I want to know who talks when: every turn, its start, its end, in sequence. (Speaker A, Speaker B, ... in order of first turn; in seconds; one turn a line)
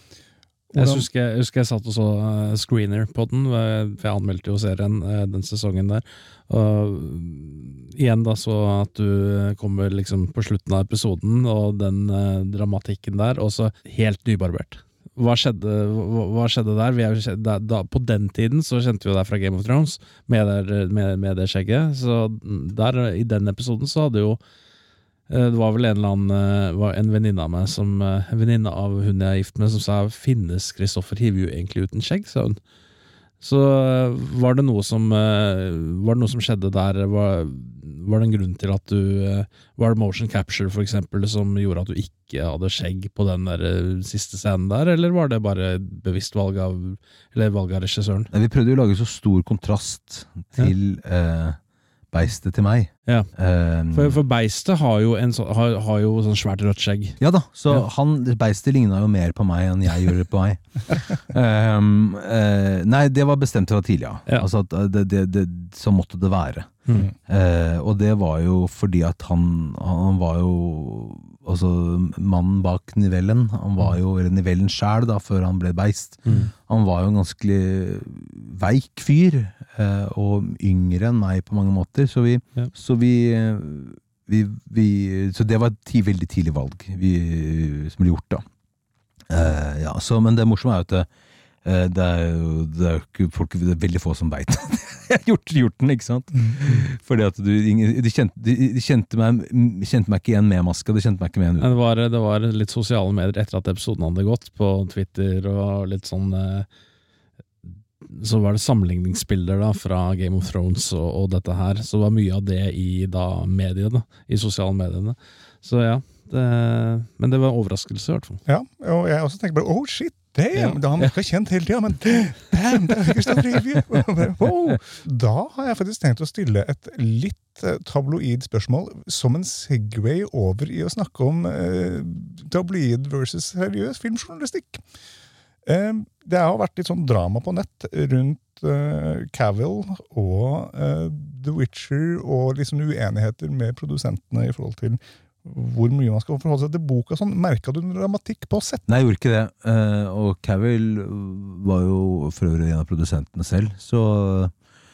Speaker A: 0.7-1.1
Speaker B: 0.8-24.4
Speaker B: 25.3-32.6
Speaker B: 33.4-48.3
Speaker C: 48.3-51.6
Speaker C: 52.1-54.2
Speaker B: 53.9-57.2
Speaker C: 57.2-88.4
Speaker B: 76.3-76.5
Speaker C: 89.3-91.1
Speaker C: 91.6-101.7
Speaker B: 101.6-106.7
Speaker B: 108.0-118.4
Speaker A: 118.5-134.8
Speaker B: 120.5-121.1
Speaker A: 135.7-148.8
Speaker C: 148.9-154.5